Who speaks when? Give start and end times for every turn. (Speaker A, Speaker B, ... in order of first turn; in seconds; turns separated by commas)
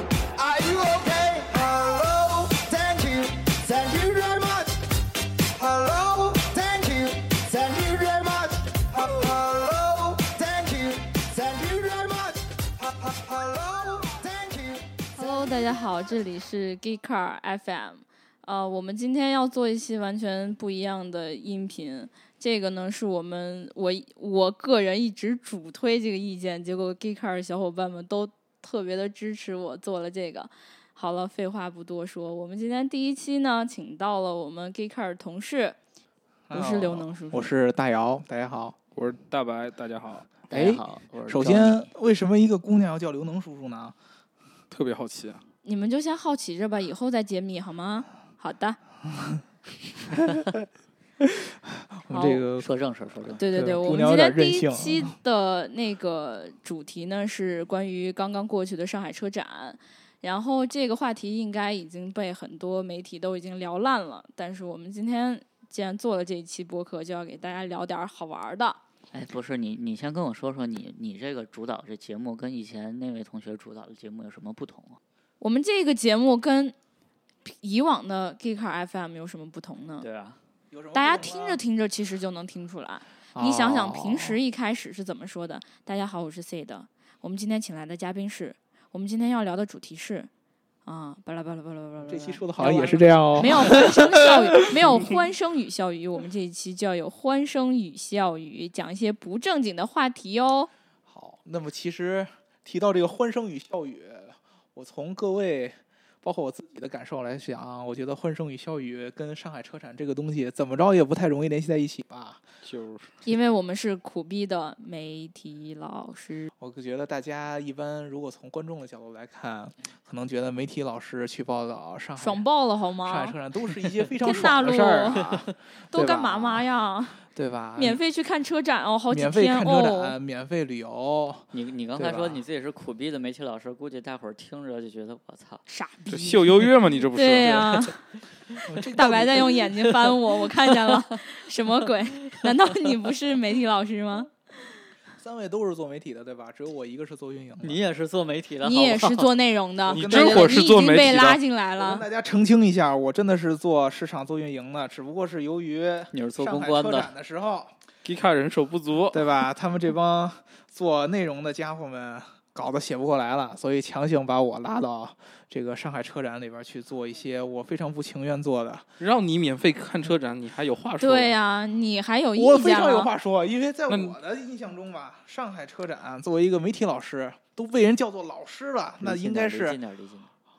Speaker A: 0.4-4.8, Speaker A: 5.5-15.3, Speaker B: 15.1-35.8, Speaker C: 36.5-38.8, Speaker B: 36.5-37.5, Speaker D: 38.9-40.4, Speaker E: 40.5-41.9, Speaker C: 40.5-44.0, Speaker D: 44.7-45.4, Speaker B: 45.6-48.8, Speaker C: 49.2-49.4, Speaker C: 50.1-50.7, Speaker C: 51.2-52.7, Speaker B: 52.1-52.5, Speaker E: 52.6-53.5, Speaker B: 53.4-68.8, Speaker C: 53.5-55.2, Speaker E: 69.1-75.0, Speaker B: 75.4-76.7, Speaker B: 77.5-80.1, Speaker E: 80.0-80.4, Speaker C: 80.7-81.6, Speaker B: 80.9-90.3, Speaker C: 83.3-84.4, Speaker B: 90.8-100.7, Speaker C: 92.0-94.0, Speaker C: 94.6-95.0, Speaker C: 101.1-112.4, Speaker D: 112.6-113.1, Speaker B: 113.2-116.5, Speaker C: 116.6-122.5, Speaker B: 122.2-123.3, Speaker C: 123.0-126.7, Speaker B: 124.2-125.3, Speaker B: 125.9-127.2, Speaker C: 127.3-128.0, Speaker B: 127.8-130.2, Speaker C: 129.1-132.4, Speaker E: 131.5-135.6, Speaker B: 135.7-136.4, Speaker D: 136.1-137.6, Speaker B: 137.1-138.1, Speaker C: 138.7-139.6, Speaker B: 138.9-144.3, Speaker C: 145.2-147.8, Speaker E: 147.6-149.3, Speaker B: 148.6-152.1, Speaker D: 149.9-151.4, Speaker C: 149.9-150.5, Speaker C: 151.8-157.7, Speaker E: 156.1-157.1, Speaker D: 158.1-159.3, Speaker C: 159.1-168.9, Speaker D: 169.0-171.4, Speaker B: 171.0-173.1, Speaker C: 172.3-179.8, Speaker D: 173.9-174.1, Speaker E: 179.0-180.3